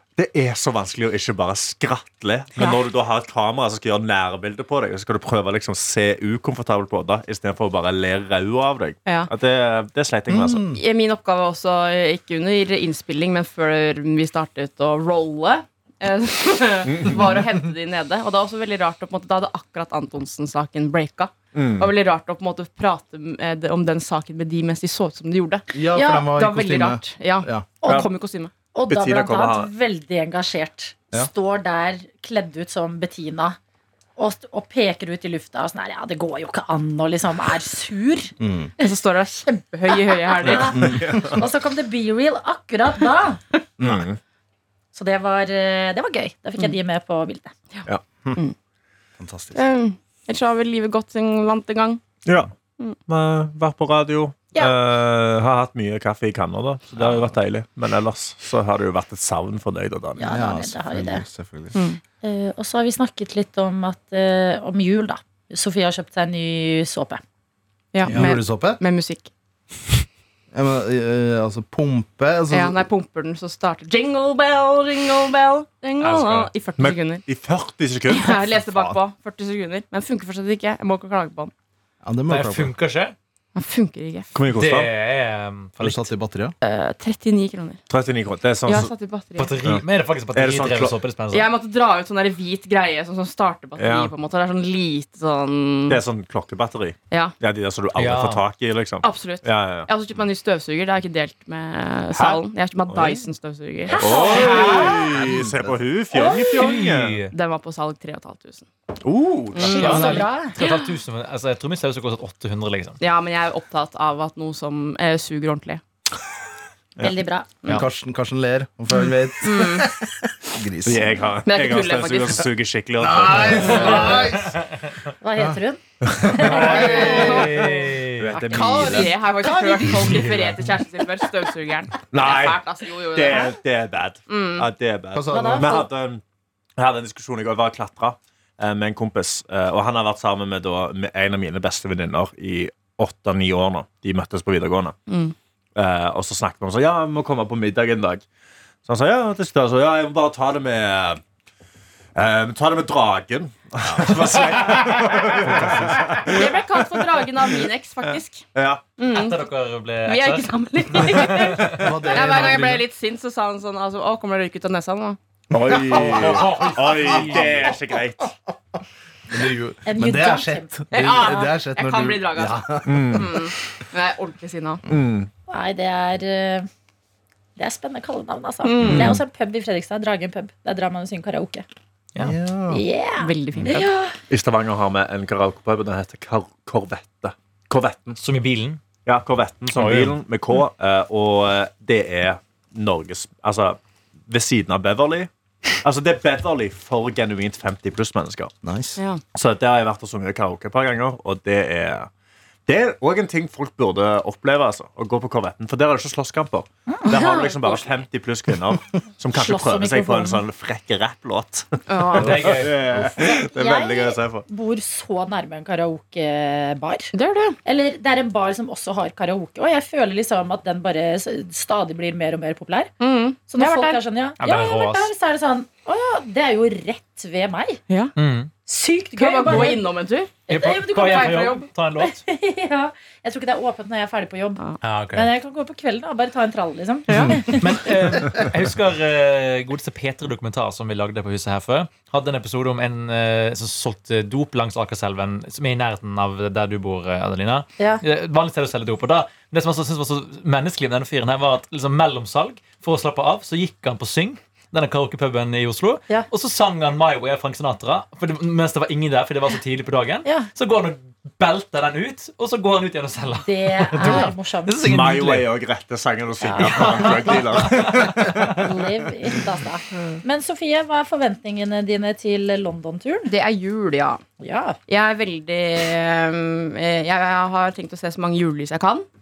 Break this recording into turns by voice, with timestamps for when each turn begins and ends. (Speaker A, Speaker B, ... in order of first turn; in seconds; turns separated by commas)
Speaker A: 0.1-10.7, Speaker B: 9.1-9.3, Speaker C: 10.3-10.8, Speaker B: 10.7-28.5, Speaker A: 16.9-17.4, Speaker A: 21.5-21.9, Speaker C: 25.7-27.7, Speaker D: 25.9-26.3, Speaker D: 27.8-28.1, Speaker D: 28.7-33.6, Speaker A: 28.9-29.7, Speaker D: 34.2-38.3, Speaker C: 38.4-38.7, Speaker B: 38.8-40.9, Speaker D: 40.1-43.4, Speaker A: 40.5-41.4, Speaker C: 40.6-41.4, Speaker C: 43.8-44.0, Speaker A: 43.8-44.2, Speaker D: 44.9-47.5, Speaker C: 49.2-49.6, Speaker B: 49.5-52.0, Speaker A: 52.2-52.5, Speaker A: 53.0-60.3, Speaker C: 56.9-57.2, Speaker D: 60.2-61.2, Speaker C: 60.2-61.8, Speaker B: 61.7-62.0, Speaker D: 62.2-67.2, Speaker B: 67.9-69.3, Speaker E: 68.0-68.3, Speaker C: 68.1-68.8, Speaker C: 70.5-72.9, Speaker B: 72.5-77.2, Speaker E: 76.0-76.5, Speaker A: 76.8-78.6, Speaker B: 78.1-81.5, Speaker C: 82.0-82.7, Speaker E: 82.3-83.1, Speaker B: 83.5-84.3, Speaker A: 84.3-84.9, Speaker E: 84.5-86.1, Speaker C: 85.8-86.5, Speaker B: 86.6-87.8, Speaker A: 87.9-88.9, Speaker B: 88.7-89.6, Speaker E: 89.4-91.5, Speaker A: 89.6-91.0, Speaker B: 91.3-96.0, Speaker A: 93.8-94.1, Speaker A: 95.9-99.9, Speaker E: 98.0-98.4, Speaker B: 99.0-105.1, Speaker A: 102.9-103.2, Speaker D: 103.9-105.0, Speaker A: 103.9-107.2, Speaker C: 104.8-105.8, Speaker D: 106.1-106.6, Speaker E: 106.5-107.3, Speaker B: 107.3-108.7, Speaker A: 109.0-110.2, Speaker B: 109.5-110.9, Speaker E: 109.7-113.0, Speaker D: 109.7-110.6, Speaker B: 113.0-115.8, Speaker D: 117.0-117.5, Speaker C: 117.7-121.1, Speaker B: 119.4-119.9, Speaker A: 120.8-124.3, Speaker B: 121.4-122.5, Speaker C: 123.0-124.6, Speaker E: 123.5-124.7, Speaker D: 125.2-127.5, Speaker A: 126.2-126.6, Speaker C: 126.3-127.7, Speaker E: 126.3-128.4, Speaker B: 126.7-127.7, Speaker A: 128.1-129.2, Speaker D: 128.3-128.6, Speaker C: 128.5-130.3, Speaker B: 128.5-133.6, Speaker A: 132.1-132.6, Speaker A: 133.1-136.2, Speaker B: 134.3-134.7, Speaker C: 135.1-135.8, Speaker D: 135.3-135.9, Speaker A: 136.8-144.9, Speaker B: 145.1-145.3, Speaker A: 145.8-148.2, Speaker A: 148.8-151.2, Speaker A: 152.1-156.6, Speaker C: 153.8-154.2, Speaker B: 156.3-158.4, Speaker A: 158.5-158.8, Speaker B: 159.0-159.4, Speaker E: 159.1-161.8, Speaker B: 160.0-165.2, Speaker C: 161.7-162.8, Speaker A: 165.5-168.3, Speaker C: 165.7-168.0, Speaker E: 165.9-167.7, Speaker C: 169.3-173.4, Speaker D: 169.8-170.7, Speaker B: 170.9-174.8, Speaker A: 172.8-173.3, Speaker A: 174.9-175.3, Speaker D: 175.5-176.7, Speaker D: 177.6-181.6, Speaker B: 178.6-179.2, Speaker A: 178.8-179.2, Speaker C: 182.2-182.8, Speaker D: 182.7-184.1, Speaker B: 183.2-183.9, Speaker A: 184.3-188.2, Speaker E: 188.2-188.8, Speaker A: 189.0-198.5, Speaker E: 189.7-190.2, Speaker C: 198.6-199.0, Speaker B: 199.0-199.2, Speaker A: 199.3-202.1, Speaker A: 202.7-214.4, Speaker D: 206.9-207.8, Speaker D: 209.3-210.4, Speaker B: 211.9-212.6, Speaker E: 212.1-212.8, Speaker D: 213.0-217.1, Speaker B: 217.1-217.6, Speaker D: 217.6-222.9, Speaker B: 223.0-224.0, Speaker D: 223.5-227.8, Speaker E: 224.4-225.1, Speaker B: 227.9-228.1, Speaker E: 228.2-228.5, Speaker D: 228.7-229.8, Speaker B: 229.2-230.4, Speaker E: 230.5-232.2, Speaker D: 230.5-237.8, Speaker B: 230.9-231.7, Speaker E: 234.8-235.3, Speaker B: 237.1-237.4, Speaker E: 237.1-265.5, Speaker D: 247.8-248.0, Speaker D: 263.4-264.9, Speaker A: 264.8-268.7, Speaker D: 266.4-267.3, Speaker E: 266.6-268.7, Speaker D: 268.6-273.3, Speaker B: 273.3-274.2, Speaker D: 274.4-274.8, Speaker B: 274.9-279.1